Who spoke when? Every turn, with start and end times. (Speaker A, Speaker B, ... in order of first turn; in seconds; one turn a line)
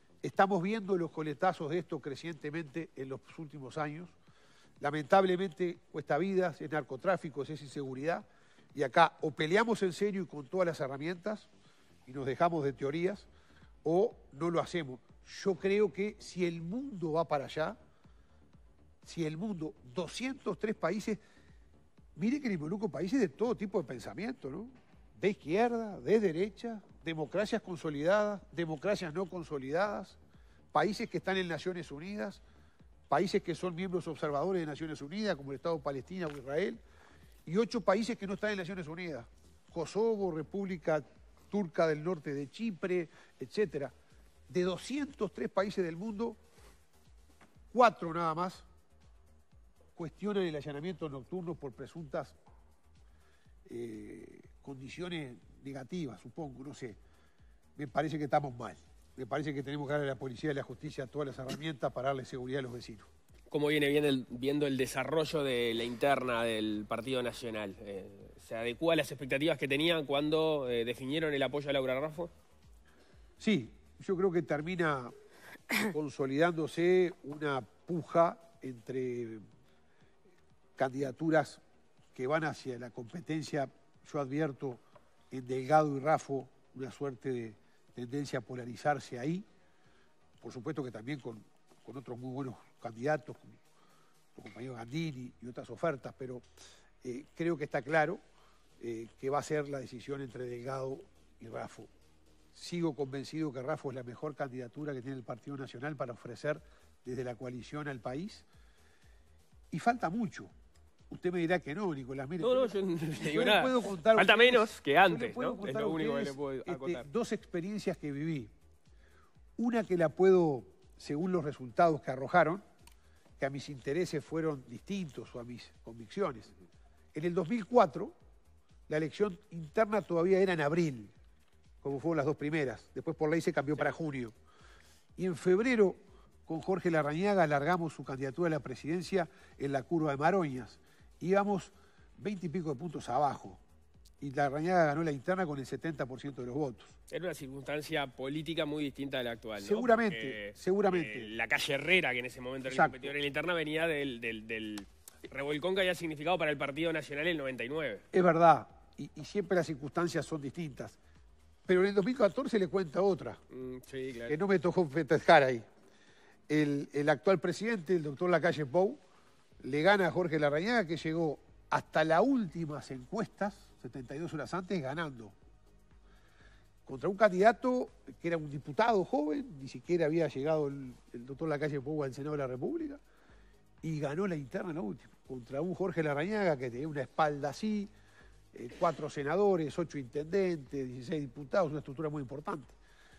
Speaker A: 0.2-4.1
Speaker A: 4.8-11.5
Speaker A: 12.1-13.3
Speaker A: 13.8-17.8
Speaker A: 19.0-21.2
Speaker A: 22.1-30.2
Speaker A: 30.7-32.4
Speaker A: 33.1-36.8
Speaker A: 37.5-43.9
Speaker A: 44.5-46.4
Speaker A: 47.7-48.6
Speaker A: 50.0-52.4
Speaker A: 53.6-57.0
Speaker A: 57.8-63.1
Speaker B: 63.5-72.3
Speaker A: 73.4-75.1
Speaker A: 75.8-79.4
Speaker A: 80.8-81.6
Speaker A: 82.1-89.5
Speaker A: 90.4-93.6
Speaker A: 94.3-96.4
Speaker A: 97.0-98.2
Speaker A: 98.8-101.9
Speaker A: 102.5-108.5
Speaker A: 109.7-110.5
Speaker A: 111.1-118.5
Speaker B: 112.4-117.0
Speaker A: 119.6-122.6
Speaker A: 123.4-126.5
Speaker A: 127.1-128.1
Speaker A: 128.9-131.1
Speaker A: 131.8-134.3
Speaker A: 135.2-143.6
Speaker A: 144.2-146.9
Speaker B: 147.1-158.0
Speaker A: 149.6-151.3
Speaker A: 152.7-153.1
Speaker A: 158.1-161.0
Speaker A: 161.7-163.4
Speaker B: 163.5-164.4
Speaker A: 164.3-165.7
Speaker A: 166.5-169.0
Speaker A: 169.6-175.3
Speaker A: 176.8-183.0
Speaker A: 183.8-187.9
Speaker A: 188.5-192.7